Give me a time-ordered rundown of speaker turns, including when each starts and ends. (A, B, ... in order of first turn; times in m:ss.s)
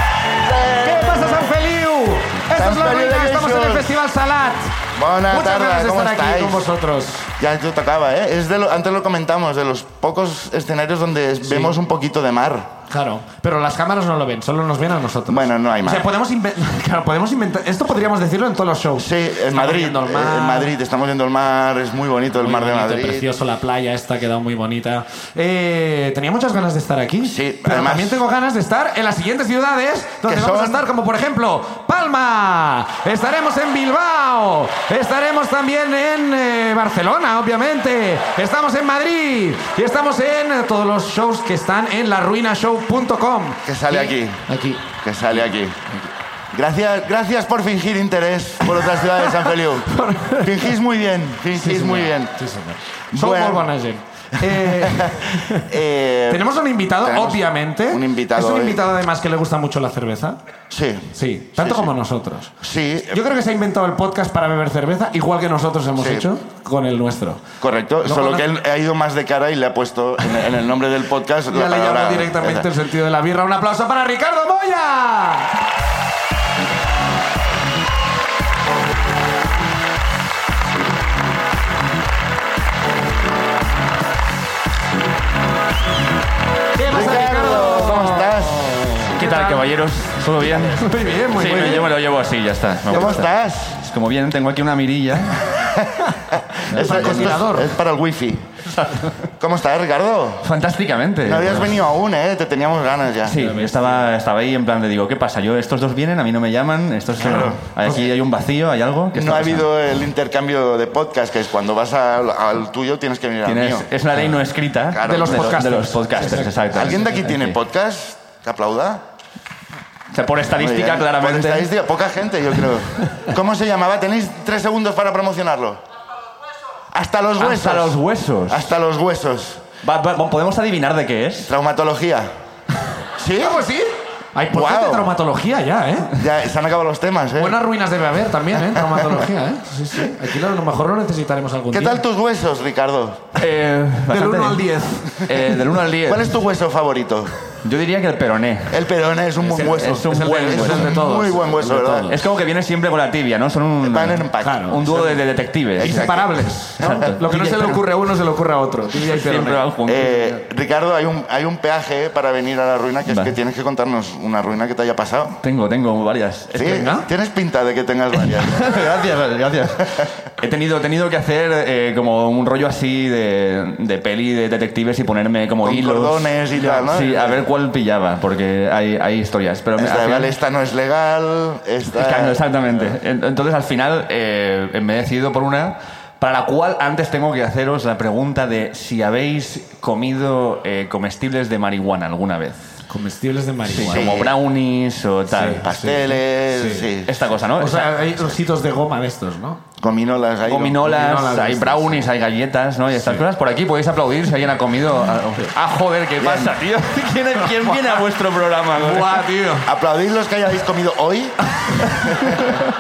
0:00.4-0:01.5 A
0:00.7-0:04.8 B
0:02.5-0:04.0 A
0:05.0-0:06.7 A
0:05.3-0:07.3 B
0:07.4-0:12.7 A
0:11.4-0:11.8 B
0:12.9-0:20.7 B
0:15.3-0:16.1 A
0:19.0-0:23.3 A
0:22.4-0:44.9 B
0:27.2-0:28.2 A
0:30.3-0:30.8 A
0:43.7-0:44.5 A
0:45.0-0:45.9 A
0:46.5-0:52.4 A
0:49.9-0:50.7 B
0:51.5-0:55.7 B
0:53.1-0:53.7 A
0:54.4-0:58.8 A
0:56.3-1:00.4 B
1:00.7-1:01.9 A
1:01.1-1:02.5 B
1:02.6-1:03.2 A
1:03.1-1:07.4 B
1:06.0-1:06.3 A
1:07.6-1:12.7 A
1:08.0-1:08.4 B
1:11.5-1:15.5 B
1:26.8-1:29.7 B
1:26.9-1:29.1 A
1:29.1-1:35.4 C
1:30.7-1:31.9 B
1:31.4-1:31.9 A
1:32.9-1:33.8 A
1:35.5-1:38.5 A
1:36.7-1:37.8 B
1:36.8-1:37.1 C
1:38.7-1:39.1 C
1:39.4-1:40.5 A
1:40.4-1:41.7 C
1:41.2-1:43.4 A
1:43.2-1:49.7 C
1:43.4-1:44.0 B
1:47.2-1:47.6 A
1:47.3-1:48.0 B
1:49.1-1:53.9 A
1:53.4-1:57.6 C
1:54.9-1:55.7 A
1:55.1-1:57.3 B
1:56.7-1:59.0 A
2:00.1-2:01.7 C
2:00.6-2:05.8 A
2:06.9-2:08.0 A
2:07.4-2:08.7 C
2:08.5-2:09.6 A
2:09.8-2:11.5 C
2:11.4-2:12.3 A
2:13.2-2:13.6 A
2:13.4-2:16.2 B
2:14.5-2:15.1 A
2:16.2-2:17.6 A
2:17.4-2:22.0 B
2:18.8-2:19.2 A
2:21.7-2:23.2 A
2:23.4-2:26.4 C
2:24.1-2:25.8 B
2:26.0-2:27.4 A
2:27.6-2:28.9 C
2:28.7-2:32.2 A
2:29.4-2:32.2 B
2:29.6-2:31.0 C
2:32.1-2:37.9 C
2:33.8-2:35.1 A
2:34.4-2:35.1 B
2:35.8-2:37.1 A
2:35.8-2:39.6 B
2:38.9-2:40.4 C
2:39.9-2:45.4 A
2:43.0-2:43.4 C
2:45.4-2:47.0 C
2:46.5-2:48.8 A
2:46.7-2:47.1 B
2:48.1-3:00.3 C
2:55.6-2:57.4 A
2:56.5-2:56.9 B
2:59.8-3:03.0 A
3:01.9-3:12.8 C
3:12.9-3:14.3 B
3:13.6-3:15.6 C
3:13.8-3:14.4 A
3:15.3-3:16.9 B
3:15.6-3:17.3 A
3:17.1-3:18.2 C
3:17.6-3:19.6 B
3:19.8-3:20.8 A
3:20.5-3:29.3 C
3:20.8-3:22.0 B
3:23.0-3:23.2 B
3:26.2-3:26.6 A
3:27.5-3:28.0 B
3:28.8-3:29.7 B
3:29.6-3:31.4 A
3:32.2-3:32.5 A